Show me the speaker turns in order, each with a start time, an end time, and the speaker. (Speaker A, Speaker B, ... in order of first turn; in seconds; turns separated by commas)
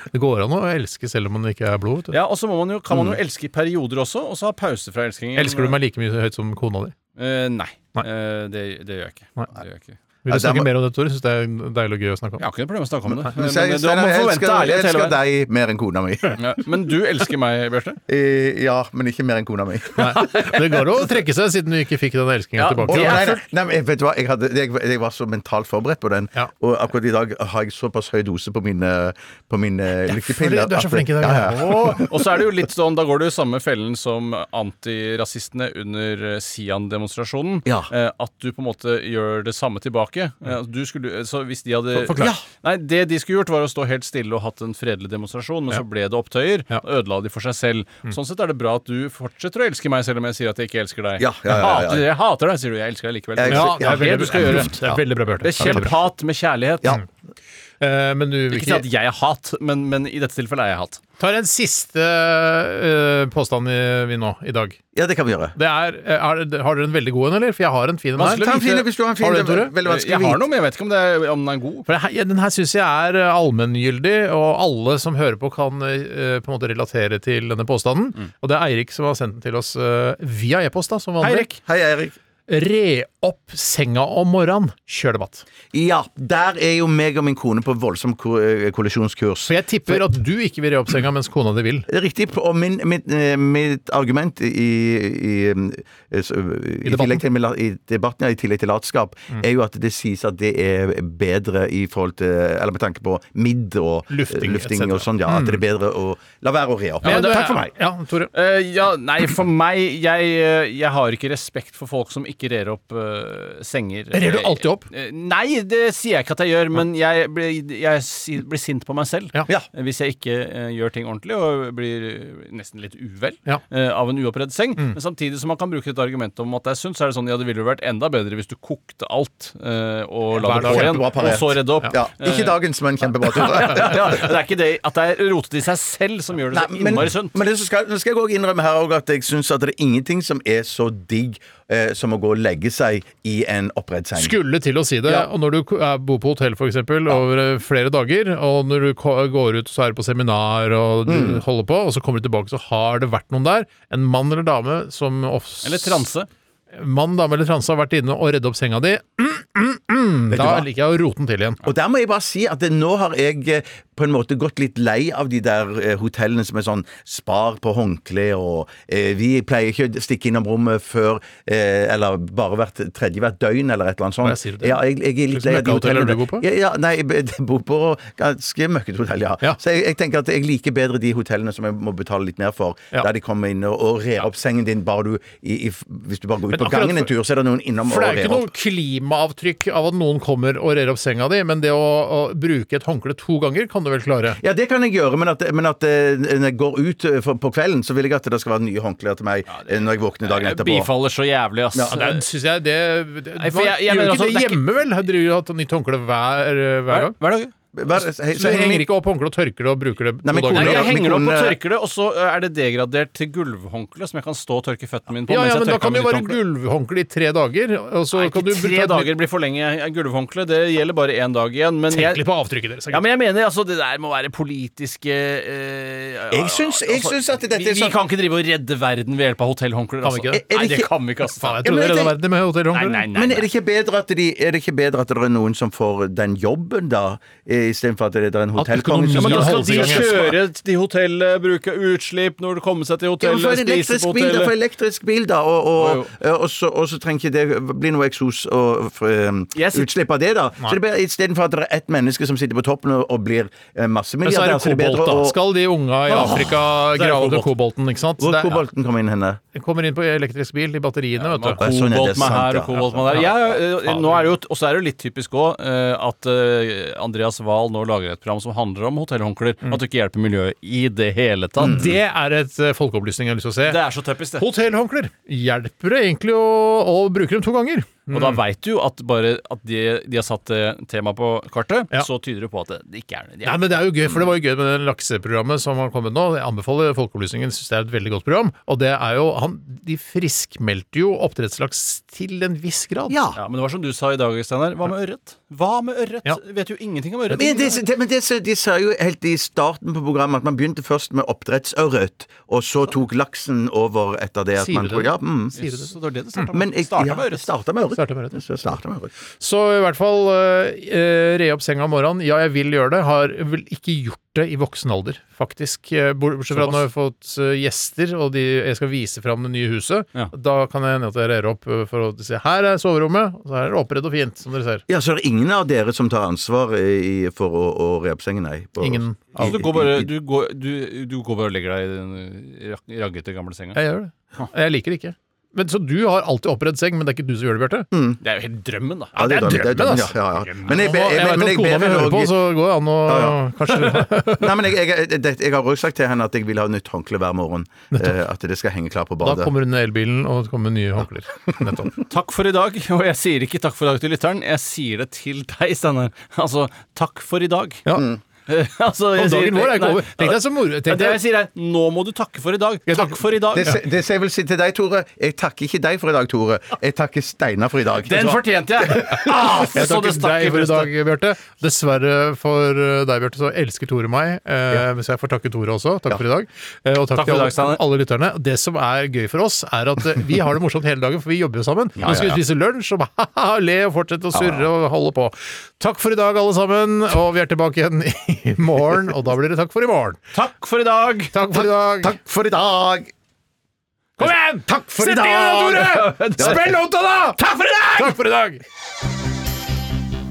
Speaker A: 0.1-2.2, Speaker B: 2.1-5.8, Speaker C: 2.9-3.2, Speaker A: 5.3-7.0, Speaker B: 7.2-10.0, Speaker A: 10.2-12.4, Speaker C: 10.3-10.7, Speaker B: 12.4-15.2, Speaker C: 13.1-16.6, Speaker B: 16.4-18.0, Speaker C: 18.1-20.4, Speaker A: 20.0-23.4, Speaker B: 22.6-23.4, Speaker C: 22.9-32.1, Speaker A: 30.3-31.9, Speaker B: 31.5-54.9, Speaker A: 42.0-42.4, Speaker C: 42.2-42.4, Speaker C: 51.2-52.1, Speaker C: 53.4-55.0, Speaker A: 53.5-55.9, Speaker B: 55.4-57.0, Speaker A: 57.8-58.9, Speaker B: 58.5-61.0, Speaker A: 61.2-64.8, Speaker C: 64.9-65.5, Speaker A: 65.5-68.6, Speaker C: 68.2-70.5, Speaker B: 68.3-68.8, Speaker A: 69.2-69.7, Speaker B: 69.8-71.9, Speaker A: 71.9-81.5, Speaker B: 81.2-81.6, Speaker C: 81.6-82.2, Speaker A: 82.5-85.5, Speaker C: 85.7-90.0, Speaker A: 89.5-91.9, Speaker C: 91.9-107.7, Speaker A: 96.8-97.2, Speaker A: 104.1-105.6, Speaker B: 107.0-107.7, Speaker A: 107.0-108.3, Speaker B: 108.3-132.6, Speaker A: 114.1-114.9, Speaker A: 130.4-131.0, Speaker C: 130.5-134.3, Speaker B: 133.3-137.4, Speaker C: 136.5-144.4, Speaker A: 144.2-156.1, Speaker C: 151.1-151.4, Speaker B: 155.6-156.3, Speaker A: 156.7-161.6, Speaker C: 160.3-160.7, Speaker C: 161.6-188.5, Speaker A: 174.2-176.4, Speaker A: 186.5-187.1, Speaker A: 187.8-194.4, Speaker C: 194.4-200.9, Speaker B: 199.5-202.2, Speaker C: 201.7-202.0, Speaker A: 201.9-207.2, Speaker B: 203.4-204.6, Speaker B: 206.9-207.5, Speaker C: 207.8-208.9, Speaker A: 207.9-210.9, Speaker C: 210.2-211.6, Speaker B: 210.5-216.4, Speaker A: 215.3-219.1, Speaker B: 218.1-222.2, Speaker A: 221.9-223.0, Speaker B: 222.9-231.6, Speaker C: 226.3-228.0, Speaker A: 230.0-230.4, Speaker C: 230.3-230.9, Speaker A: 231.3-233.0, Speaker C: 231.6-232.2, Speaker B: 232.7-233.5, Speaker C: 233.1-240.3, Speaker A: 238.6-240.3, Speaker B: 239.1-244.6, Speaker C: 243.2-255.4, Speaker B: 245.8-246.1, Speaker B: 249.6-249.9, Speaker A: 254.2-258.6, Speaker B: 256.1-257.5, Speaker C: 258.2-259.4, Speaker A: 259.5-261.6, Speaker B: 261.2-271.9, Speaker C: 261.6-263.6, Speaker A: 271.6-273.8, Speaker C: 271.6-272.0, Speaker B: 273.7-274.4, Speaker A: 274.4-278.4, Speaker B: 278.1-283.7, Speaker A: 283.4-293.2, Speaker C: 293.1-293.4, Speaker B: 293.4-297.8, Speaker C: 297.3-305.6, Speaker A: 304.6-306.4, Speaker B: 305.6-307.5, Speaker C: 306.5-309.1, Speaker A: 308.0-308.4, Speaker A: 309.4-324.8, Speaker B: 316.5-316.8, Speaker C: 324.9-330.1, Speaker A: 328.8-329.6, Speaker B: 329.4-333.8, Speaker A: 333.7-337.9, Speaker C: 337.9-338.2, Speaker B: 338.2-340.8, Speaker C: 339.1-342.5, Speaker A: 339.2-344.5, Speaker C: 343.1-349.5, Speaker A: 347.9-348.2, Speaker A: 349.2-351.9, Speaker B: 352.1-357.9, Speaker C: 357.9-358.2, Speaker B: 358.5-363.8, Speaker A: 359.2-361.2, Speaker A: 362.9-363.8, Speaker C: 363.5-369.7, Speaker B: 368.0-370.9, Speaker A: 369.7-390.2, Speaker B: 377.2-377.8, Speaker C: 382.0-382.4, Speaker C: 384.3-384.7, Speaker B: 390.3-391.3, Speaker A: 391.3-392.2, Speaker C: 391.5-393.1, Speaker A: 394.2-397.4, Speaker B: 395.0-396.8, Speaker B: 397.4-398.2, Speaker A: 397.9-398.6